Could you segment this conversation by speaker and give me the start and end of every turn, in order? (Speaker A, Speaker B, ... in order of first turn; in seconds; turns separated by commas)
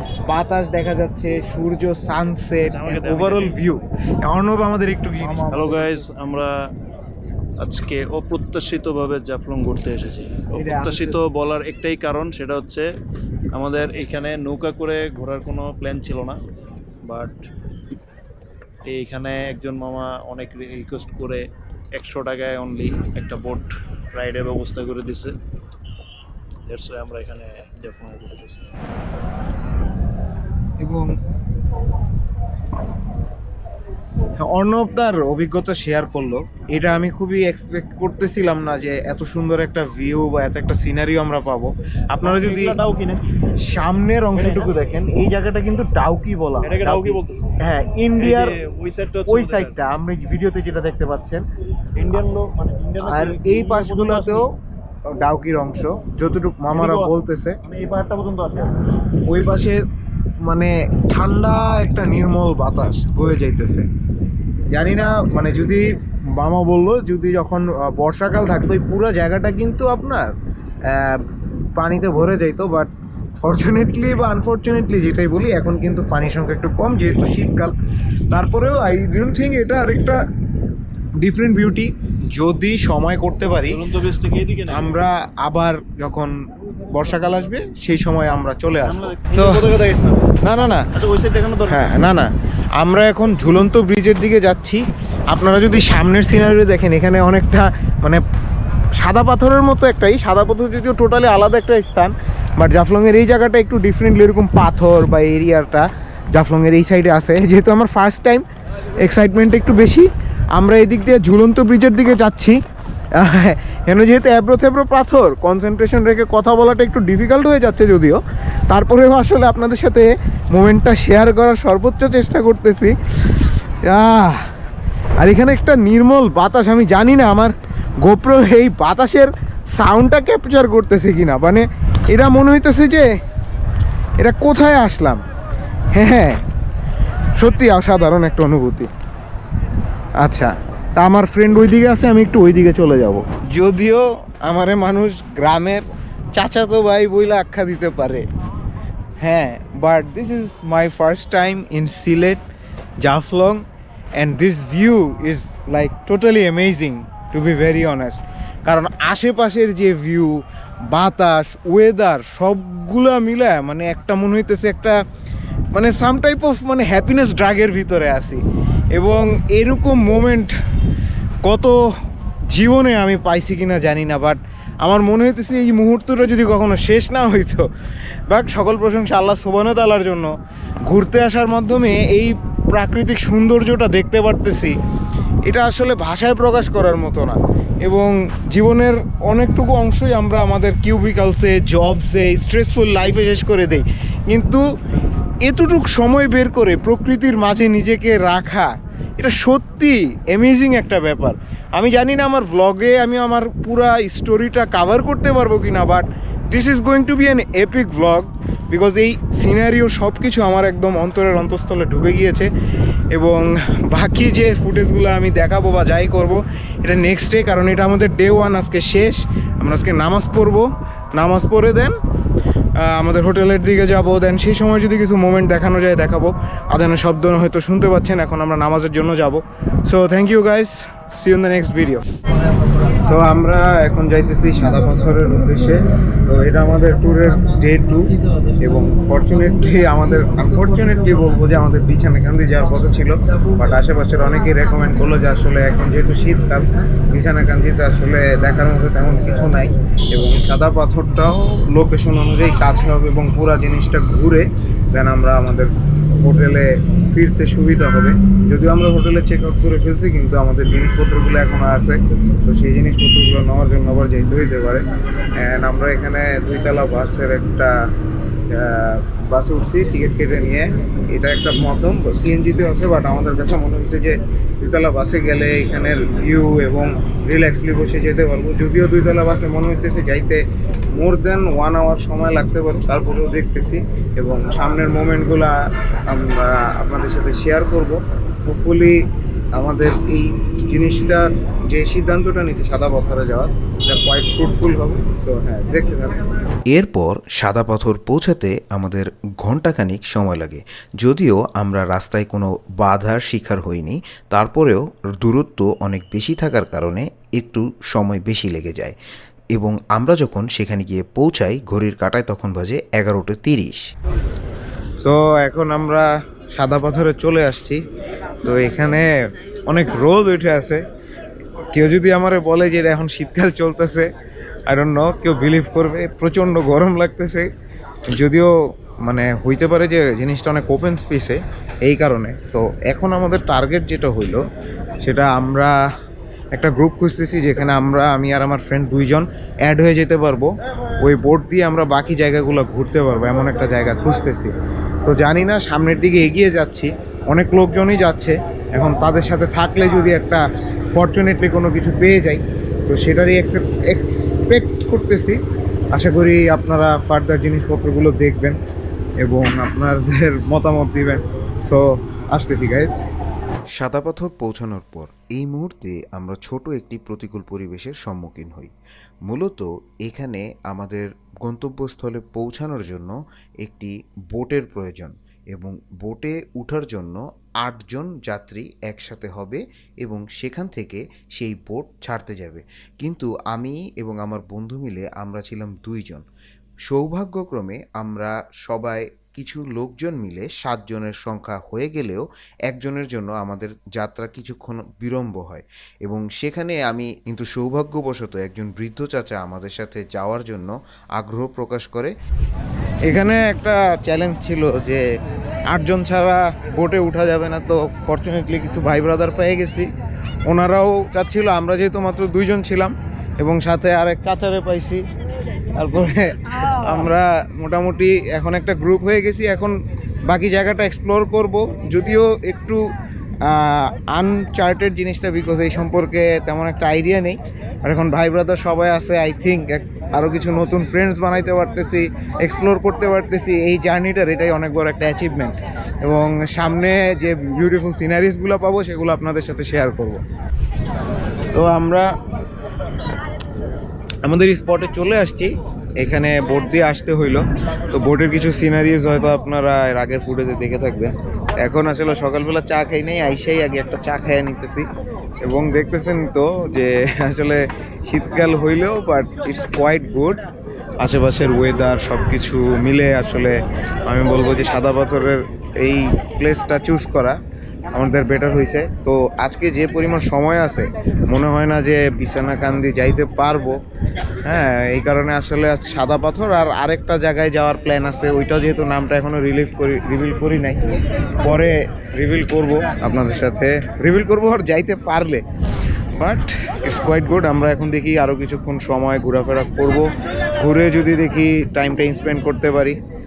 Speaker A: 0.3-6.0, Speaker B: 2.6-3.6, Speaker B: 5.2-6.5, Speaker B: 7.6-12.9, Speaker A: 10.5-11.2, Speaker B: 13.5-16.4, Speaker B: 17.0-17.4, Speaker B: 18.9-25.4, Speaker B: 26.7-28.7, Speaker A: 30.8-31.1, Speaker A: 34.4-42.8, Speaker B: 42.2-43.4, Speaker A: 43.6-48.6, Speaker B: 44.3-44.7, Speaker B: 46.6-47.6, Speaker B: 48.2-49.8, Speaker A: 49.3-51.4, Speaker B: 52.0-54.5, Speaker A: 53.0-54.5, Speaker A: 55.1-57.6, Speaker B: 56.7-58.9, Speaker A: 59.2-59.9, Speaker A: 60.4-63.9, Speaker A: 64.7-70.3, Speaker A: 70.9-77.7, Speaker A: 78.3-80.2, Speaker A: 81.2-83.8, Speaker B: 83.6-84.9, Speaker A: 84.7-89.7, Speaker B: 88.8-90.4, Speaker A: 90.4-90.9, Speaker B: 90.9-92.0, Speaker A: 91.7-98.2, Speaker A: 99.0-108.5, Speaker A: 109.0-112.6, Speaker A: 113.2-124.6, Speaker A: 125.2-133.1, Speaker A: 134.2-135.2, Speaker A: 135.9-136.4, Speaker A: 137.4-138.9, Speaker A: 140.2-148.2, Speaker A: 149.2-152.4, Speaker A: 153.0-153.6, Speaker A: 154.2-165.0, Speaker A: 165.7-168.4, Speaker A: 168.9-170.5, Speaker A: 171.4-171.8, Speaker A: 172.5-177.6, Speaker A: 178.3-180.3, Speaker A: 180.9-184.8, Speaker A: 185.5-194.6, Speaker A: 195.4-212.5, Speaker A: 213.1-221.9, Speaker A: 222.8-232.1, Speaker A: 232.9-264.9, Speaker A: 265.4-267.7, Speaker A: 268.5-280.4, Speaker A: 280.9-287.9, Speaker A: 288.4-296.2, Speaker C: 293.9-295.1, Speaker C: 296.7-309.0, Speaker C: 309.5-313.8, Speaker A: 315.0-317.8, Speaker A: 318.4-319.1, Speaker A: 319.7-320.8, Speaker A: 321.7-324.1, Speaker A: 324.7-327.5, Speaker A: 328.1-334.4, Speaker A: 335.0-335.8, Speaker A: 336.5-350.4, Speaker A: 350.9-355.4, Speaker A: 355.9-358.6, Speaker A: 359.2-361.8, Speaker A: 362.3-362.9, Speaker C: 363.8-368.7, Speaker C: 369.3-386.2, Speaker C: 386.9-402.1, Speaker A: 403.1-405.0, Speaker A: 405.7-409.9, Speaker A: 410.5-415.0, Speaker A: 415.8-419.8, Speaker A: 420.3-422.8, Speaker A: 423.5-440.2, Speaker A: 441.5-442.1, Speaker A: 444.2-454.9, Speaker A: 455.4-460.4, Speaker A: 461.0-467.4, Speaker A: 467.9-473.8, Speaker A: 474.4-485.4, Speaker A: 486.2-493.0